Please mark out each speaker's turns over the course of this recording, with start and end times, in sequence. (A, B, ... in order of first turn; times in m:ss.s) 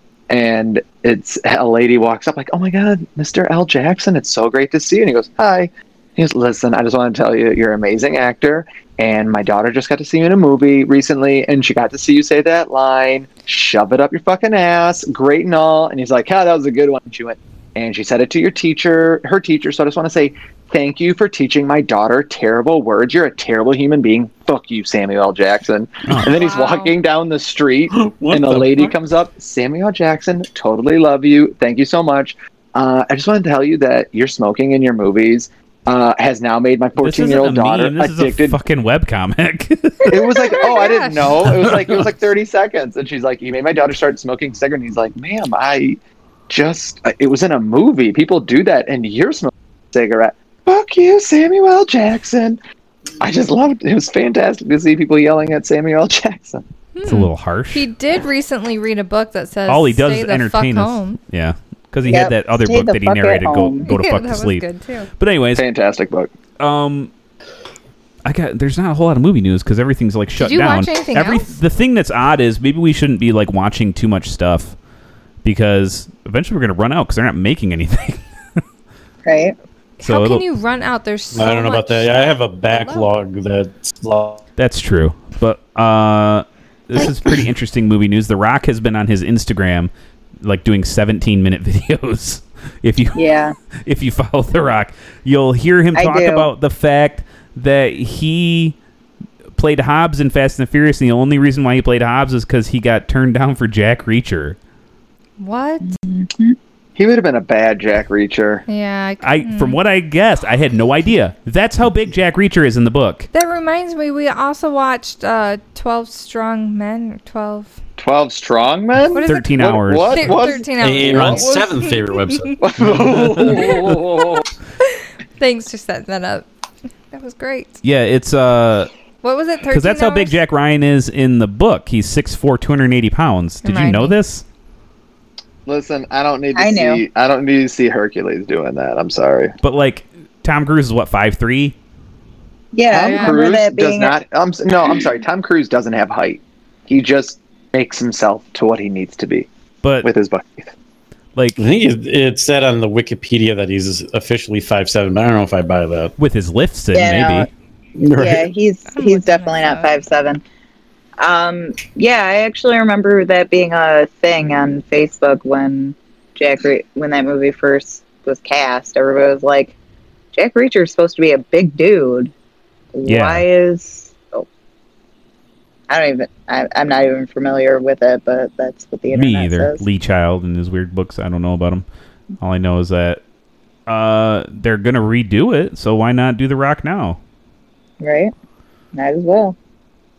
0:00.3-0:38.6 A
0:26.2-0:27.0 B
0:27.9-0:29.0 C
0:37.0-0:40.6 D
0:40.1-0:52.6 A
0:40.5-0:41.4 B
0:53.2-0:56.6 A
0:57.0-1:01.2 B
0:57.0-0:57.9 D
0:59.7-1:04.6 D
1:02.1-1:03.9 E
1:03.8-1:05.1 B
1:05.2-1:05.6 D
1:05.6-1:06.3 A
1:06.6-1:07.1 D
1:08.2-1:14.8 D
1:10.4-1:11.5 B
1:15.4-1:18.2 D
1:19.2-1:19.6 E
1:20.0-1:23.1 B
1:20.0-1:20.4 D
1:21.3-1:24.4 C
1:24.6-1:29.9 D
1:30.4-1:38.8 D
1:33.2-1:33.6 E
1:36.0-1:36.5 E
1:39.6-1:44.6 D
1:45.4-1:46.0 B
1:45.8-1:46.6 E
1:47.0-1:48.6 A
1:48.7-1:49.8 B
1:49.2-1:53.3 D
1:53.3-1:57.8 B
1:58.0-2:00.7 A
1:59.1-2:02.6 B
1:59.2-2:00.5 D
2:00.8-2:03.7 C
2:01.1-2:01.5 D
2:02.6-2:04.5 A
2:03.5-2:06.5 B
2:07.1-2:07.8 B
2:07.8-2:08.9 D
2:09.2-2:10.4 B
2:09.7-2:14.4 D
2:13.6-2:14.2 B
2:15.7-2:19.5 A
2:16.6-2:17.0 E
2:19.6-2:21.8 D
2:22.7-2:24.2 E
2:22.9-2:29.5 A
2:23.0-2:23.4 B
2:29.8-2:30.1 D
2:30.0-2:30.7 A
2:31.6-2:36.1 C
2:36.2-2:37.5 D
2:36.9-2:40.4 E
2:38.1-2:38.4 C
2:38.9-2:40.0 B
2:41.2-2:49.8 E
2:50.3-2:52.3 E
2:52.9-2:54.5 E
2:53.1-2:53.5 D
2:55.9-2:59.8 E
2:59.1-3:01.8 D
3:02.4-3:03.2 D
3:03.9-3:07.2 D
3:08.0-3:08.3 E
3:08.9-3:09.6 E